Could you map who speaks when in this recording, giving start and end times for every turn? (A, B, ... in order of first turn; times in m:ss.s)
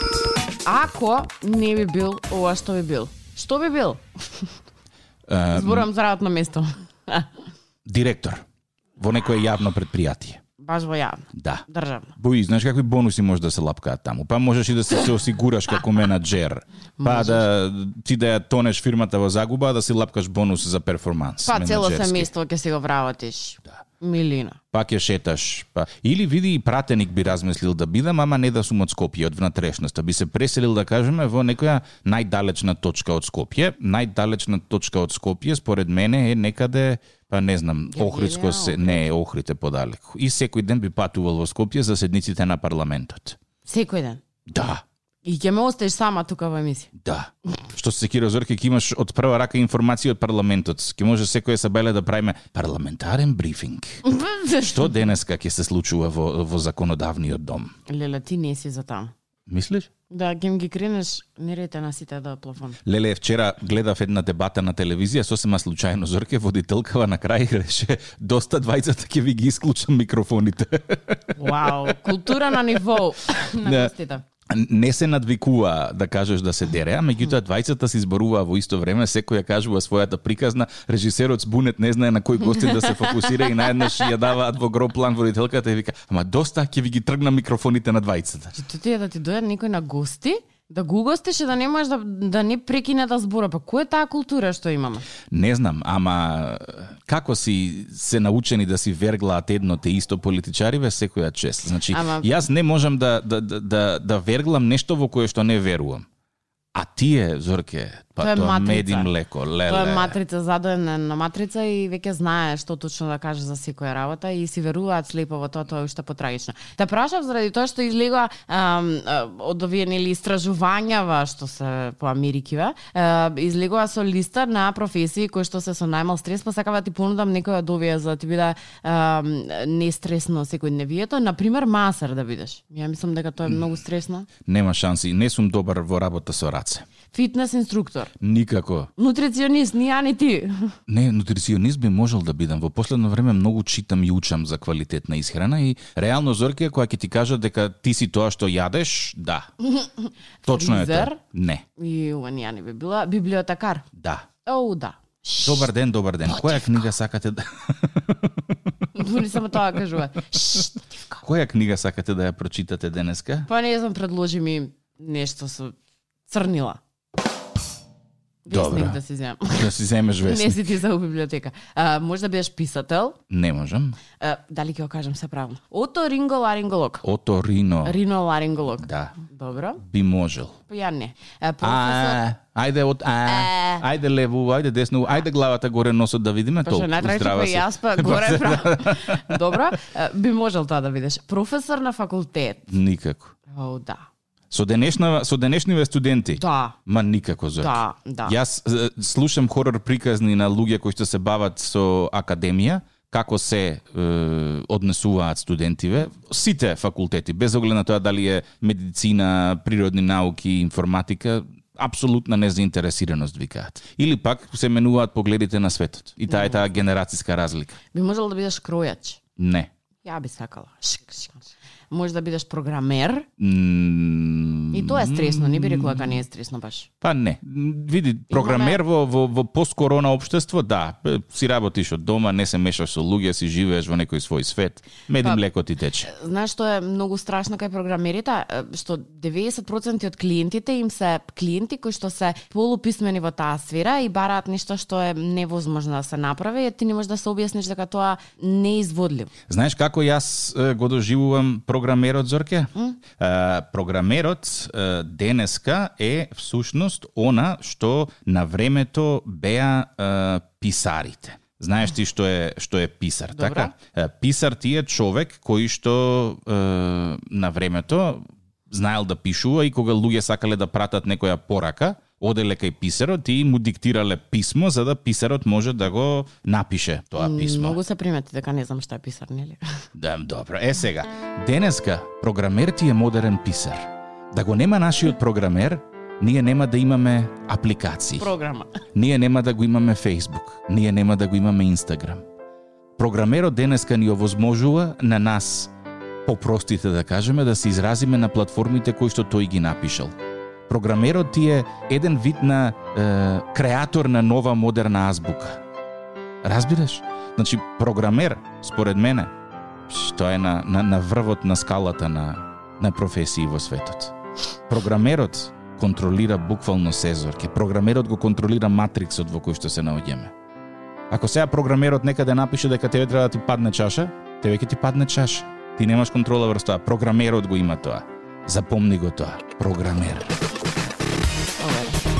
0:00.6-0:04.5 A
0:05.3-0:05.9 B
0:05.5-0:07.3 A
0:07.9-0:08.4 B
0:09.0-0:10.4 B
0:10.6-0:12.1 A
0:11.4-0:11.6 B
0:12.2-0:22.3 B
0:17.0-0:17.4 A
0:21.4-0:24.6 A
0:24.7-0:43.4 B
0:37.9-0:39.1 A
0:43.6-0:44.2 A
0:44.5-0:44.8 B
0:45.2-0:46.9 A
0:47.0-0:57.7 B
0:54.1-0:54.6 A
0:57.9-0:59.1 A
0:59.5-0:59.9 B
1:00.1-1:02.8 A
1:02.8-1:11.9 B
1:11.4-1:14.2 A
1:13.6-1:13.9 B
1:14.5-1:28.6 B
1:22.7-1:23.6 A
1:28.6-1:35.1 A
1:35.3-1:46.1 B
1:41.9-1:42.3 A
1:46.7-1:50.2 B
1:48.2-1:49.1 A
1:49.6-2:14.3 A
2:14.4-2:16.8 B
2:17.1-2:18.1 A
2:18.2-2:18.9 B
2:19.0-2:20.7 A
2:20.9-2:29.5 B
2:29.6-2:31.2 A
2:30.4-2:31.6 B
2:31.8-2:33.9 A
2:34.0-2:34.3 B
2:34.4-2:35.7 A
2:35.4-2:38.4 B
2:38.9-2:41.2 A
2:41.2-2:43.5 B
2:43.5-2:45.8 A
2:46.3-2:46.8 A
2:48.4-2:53.2 A
2:48.5-2:49.0 B
2:49.5-2:50.7 B
2:53.3-2:54.0 B
2:54.2-2:57.0 A
2:57.0-2:58.0 B
2:57.8-2:59.8 A
2:58.8-2:59.2 B
2:59.8-3:00.6 B
3:00.7-3:02.2 A
3:01.6-3:09.4 B
3:03.3-3:03.8 A
3:06.6-3:12.7 A
3:12.7-3:13.4 B
3:13.5-3:14.1 A
3:14.5-3:37.8 B
3:16.4-3:16.8 A
3:17.6-3:18.4 A
3:36.3-3:36.7 A
3:37.9-3:39.2 A
3:39.4-3:39.7 B
3:40.0-3:43.3 A
3:43.4-3:46.1 B
3:44.7-3:46.9 A
3:47.0-3:56.1 B
3:48.3-3:48.8 A
3:56.0-4:09.3 A
4:09.5-4:37.8 B
4:23.3-4:23.7 A
4:37.2-4:39.6 A
4:40.0-4:48.3 B
4:48.2-4:48.8 A
4:49.0-4:52.2 B
4:53.0-4:55.7 B
4:56.3-5:00.1 B
5:00.7-5:05.6 B
5:06.4-5:09.3 B
5:09.9-5:14.2 B
5:14.7-5:20.3 B
5:21.1-5:30.3 B
5:31.6-5:32.0 A